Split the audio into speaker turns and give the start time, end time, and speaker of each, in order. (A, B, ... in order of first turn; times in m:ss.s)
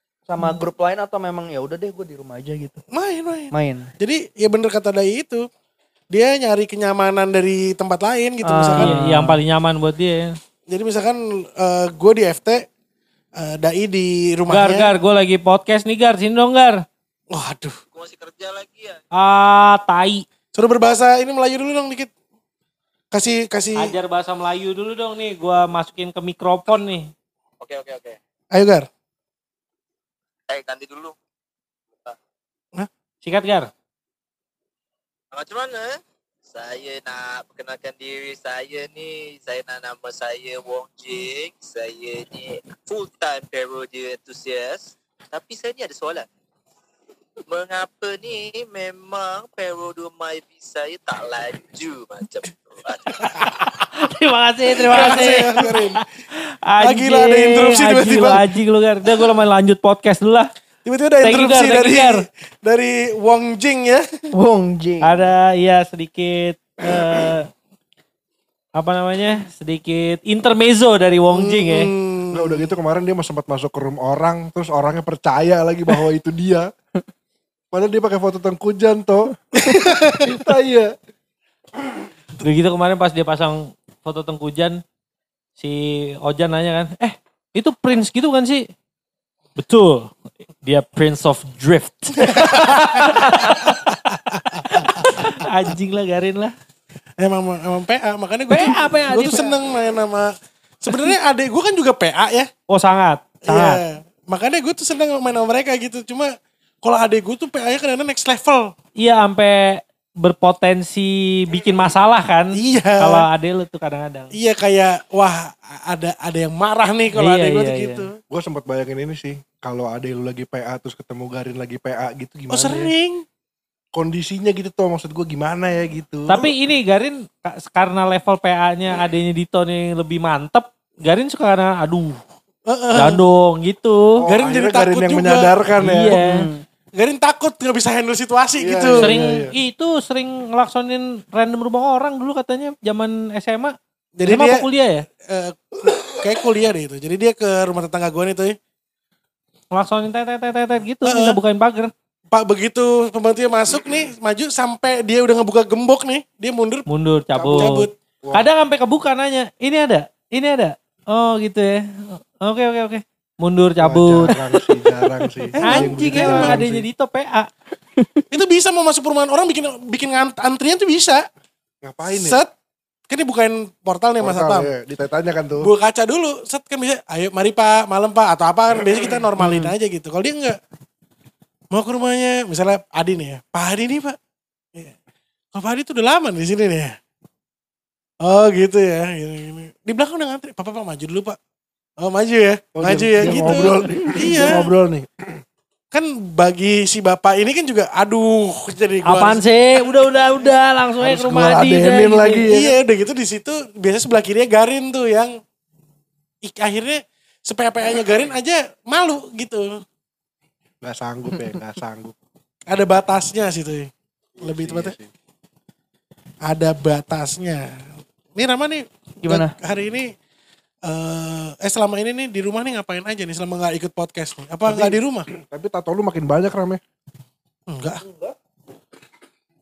0:00.3-0:02.8 A
0:02.9-0:05.4 B
0:03.5-0:03.9 A
0:06.1-0:08.9 B
0:08.4-0:09.4 A
0:08.8-0:10.4 C
0:10.7-0:12.6 B
0:13.4-0:14.9 B
0:14.5-0:16.8 C
0:17.3-0:17.8 B
0:17.9-0:19.0 D
0:19.1-0:20.2 C
0:20.5-0:22.1 B
0:23.1-0:23.9 B
0:23.8-0:27.1 C
0:27.6-0:28.2 D
0:28.5-0:28.8 B
0:30.5-0:31.2 D
0:33.2-0:33.7 C
0:35.3-0:46.3 D
0:47.5-0:53.2 D
0:53.3-0:56.0 C
0:54.7-0:56.0 B
0:56.7-1:00.5 C
0:56.8-0:58.4 B
1:00.8-1:04.1 B
1:01.2-1:02.2 C
1:04.3-1:05.3 A
1:05.0-1:07.5 C
1:08.7-1:11.9 C
1:11.3-1:12.7 B
1:12.3-1:16.7 E
1:17.7-1:20.9 E
1:22.4-1:24.8 C
1:25.6-1:28.7 C
1:29.6-1:30.1 C
1:30.6-1:33.9 C
1:32.2-1:35.3 B
1:34.5-1:36.5 C
1:37.2-1:40.3 B
1:38.5-1:39.6 C
1:40.8-1:42.5 B
1:42.7-1:43.8 C
1:43.5-1:46.3 B
1:46.8-1:48.7 B
1:49.0-1:54.3 C
1:52.6-1:53.3 B
1:54.3-1:58.2 B
1:57.1-1:58.1 C
1:58.3-2:02.9 E
2:02.5-2:03.2 B
2:03.9-2:06.4 E
2:06.3-2:12.2 C
2:12.7-2:13.2 B
2:12.9-2:14.1 C
2:14.2-2:16.2 E
2:14.3-2:15.7 B
2:15.8-2:16.5 C
2:16.1-2:16.6 A
2:17.0-2:19.2 B
2:18.6-2:19.5 E
2:18.9-2:25.0 C
2:24.2-2:24.7 B
2:25.3-2:28.6 B
2:29.7-2:31.9 C
2:31.0-2:31.4 B
2:32.3-2:36.8 B
2:36.9-2:44.4 C
2:37.3-2:38.5 E
2:37.6-2:37.9 B
2:43.8-2:46.8 E
2:45.6-2:47.5 C
2:45.6-2:46.6 B
2:48.0-2:48.2 A
2:48.3-2:51.2 B
2:51.8-2:52.4 E
2:52.1-2:52.5 B
2:53.1-2:54.7 B
2:54.2-2:55.7 E
2:55.6-3:00.6 B
2:59.4-2:59.7 A
3:01.7-3:04.2 B
3:05.5-3:06.9 B
3:08.2-3:11.4 B
3:12.0-3:14.7 B
3:12.8-3:15.4 E
3:15.9-3:20.5 B
3:19.0-3:22.5 C
3:21.0-3:22.8 E
3:22.5-3:25.3 B
3:26.4-3:29.7 B
3:30.8-3:32.1 E
3:31.3-3:31.6 A
3:32.7-3:33.9 B
3:34.4-3:35.1 E
3:34.4-3:35.0 B
3:36.4-3:37.6 B
3:38.4-3:40.1 B
3:39.2-3:39.5 A
3:40.8-3:45.3 B
3:44.7-3:46.8 E
3:47.7-3:48.0 B
3:48.1-3:48.3 E